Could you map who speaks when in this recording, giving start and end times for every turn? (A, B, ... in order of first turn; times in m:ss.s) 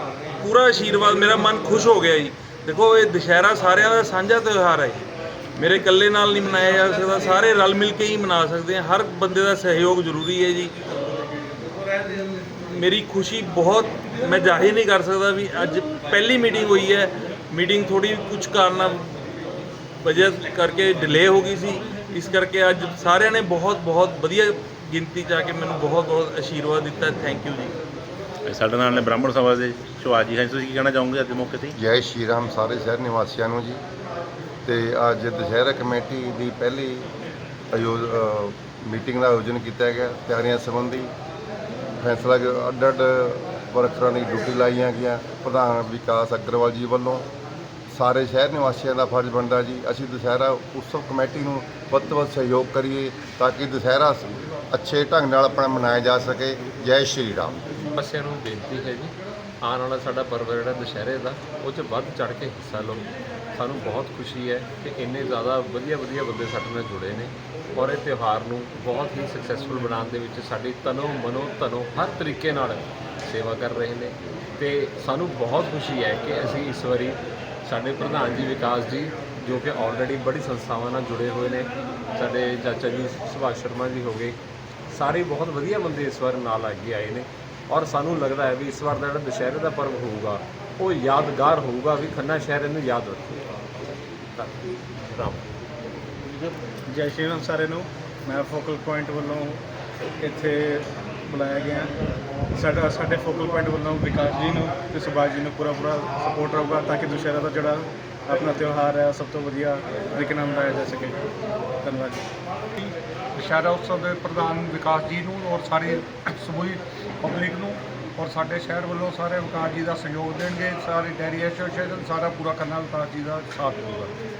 0:00.4-0:10.7 A
0:12.5-0:19.1 A
0:20.0-0:27.8 A
0:28.4-0:31.7 B
0:31.8-0:33.8 C
0:34.6-0:37.1 C
0:37.7-0:41.1 C
0:42.0-0:47.2 C
0:47.9-0:57.7 C
0:57.9-1:24.4 D
1:24.9-1:33.4 D
1:35.1-1:35.4 D
1:36.9-1:39.6 E
1:40.2-1:41.9 E
1:42.5-1:51.2 E
1:51.8-1:52.2 E
1:52.8-2:04.1 F